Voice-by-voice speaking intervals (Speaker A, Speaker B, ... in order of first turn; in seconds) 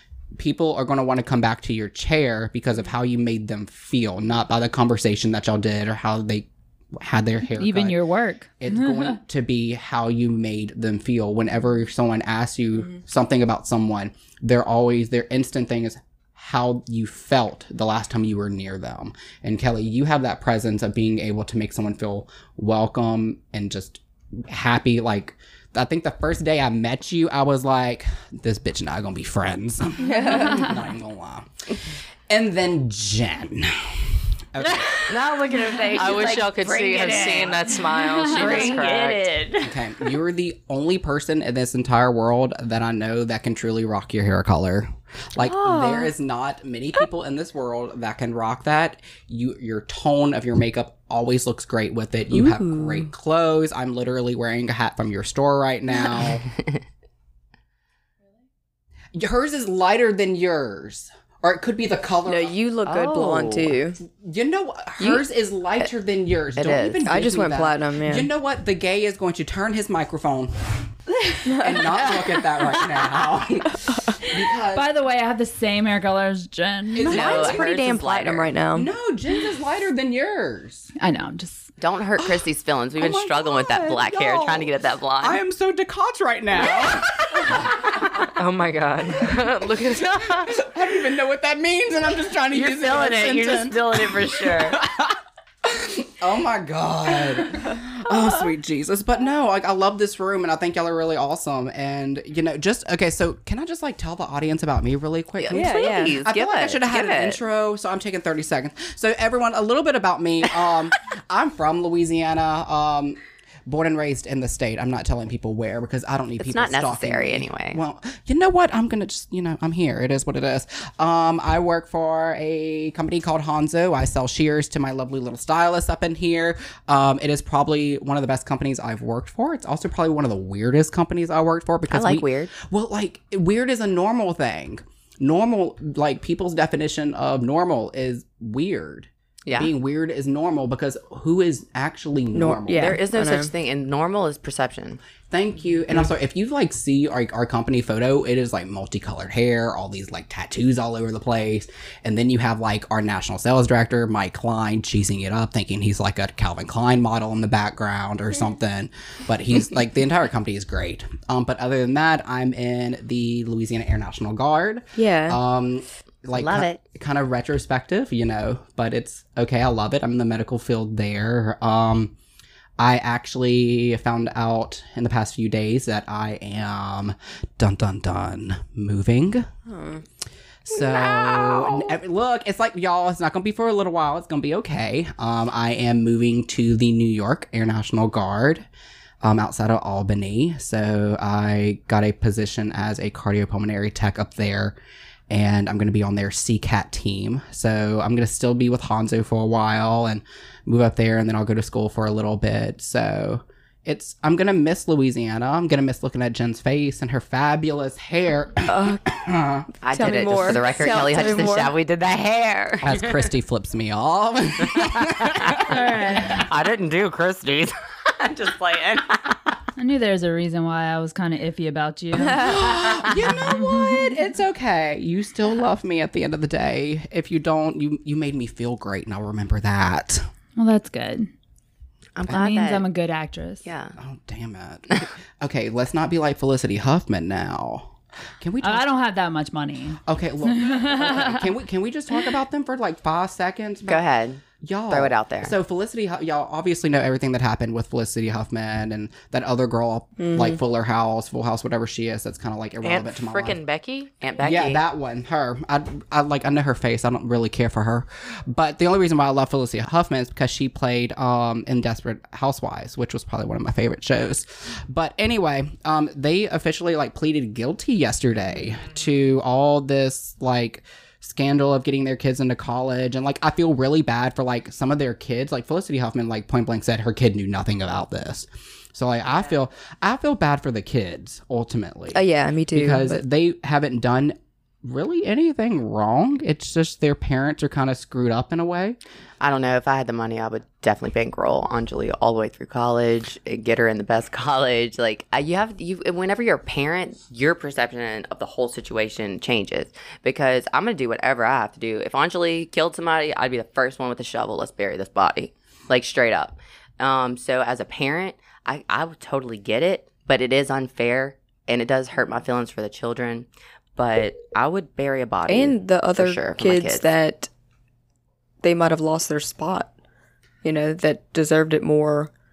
Speaker A: 0.4-8.0, 8.6-31.8, 32.3-35.1, 39.6-56.5, 59.1-62.5, 64.0-70.9, 71.5-74.9, 76.9-77.7, 78.7-80.9, 82.2-82.5, 83.0-88.3, 89.2-143.0, 145.3-172.1, 172.8-179.5, 180.7-188.7, 189.2-194.8, 195.3-209.7, 212.8-215.8, 222.2-230.3, 234.0-238.9, 240.1-244.0, 244.6-253.6, 254.4-289.0
Speaker B: 7.6-9.1, 74.7-77.2, 81.0-81.7, 215.7-216.5, 219.8-222.6, 223.3-224.2, 230.6-231.3, 232.3-233.7, 238.6-241.5
Speaker C: 30.1-30.6, 45.4-46.1, 52.3-53.1, 62.3-64.0, 67.0-68.3, 71.4-72.2, 73.9-74.2, 77.0-78.9, 105.5-106.2, 142.3-143.5, 165.0-165.4, 179.7-180.0, 208.7-209.1, 209.9-211.7, 222.3-222.7, 250.2-250.6, 282.1-283.2, 315.5-317.5, 318.6-319.9, 320.6-322.3
Speaker D: 35.0-39.8, 62.9-63.8, 66.5-67.2, 77.1-78.5, 81.8-85.4, 92.5-94.8, 105.4-107.4, 116.4-117.8, 131.9-132.5, 139.5-139.7, 142.7-145.0, 166.3-166.8, 181.2-181.5, 209.8-213.3, 214.6-219.5, 232.2-232.9, 233.6-234.0, 243.9-245.5, 254.2-254.8, 289.4-317.1
Speaker E: 35.9-39.3, 88.3-90.6, 252.8-254.1